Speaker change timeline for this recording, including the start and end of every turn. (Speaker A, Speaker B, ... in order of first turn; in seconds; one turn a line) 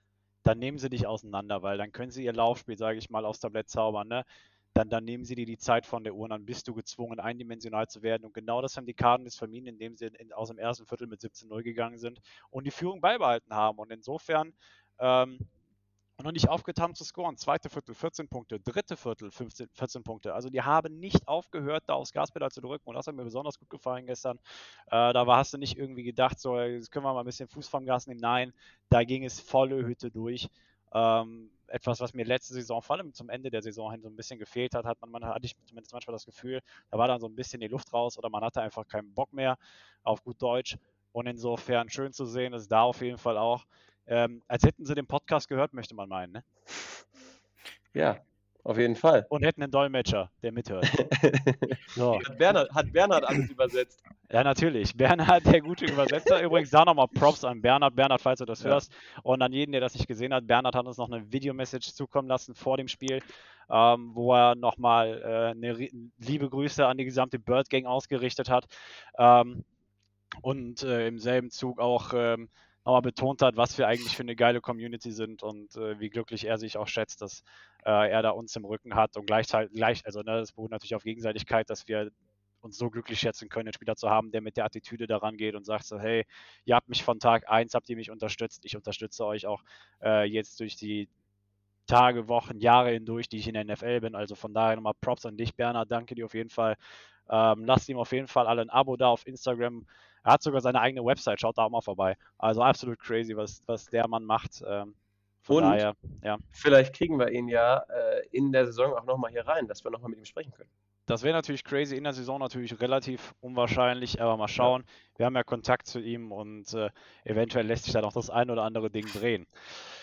Speaker A: 0.4-15.5
Speaker A: 16.2-24.4
Speaker A: 24.9-46.4
Speaker B: 47.9-49.3
Speaker A: 49.3-50.9
Speaker B: 50.9-54.0
Speaker A: 52.0-52.3
Speaker A: 54.3-69.7
Speaker A: 70.4-91.1
Speaker A: 91.9-96.8
Speaker A: 97.3-106.4
Speaker B: 105.5-105.8
Speaker B: 106.5-110.7
Speaker A: 111.1-119.5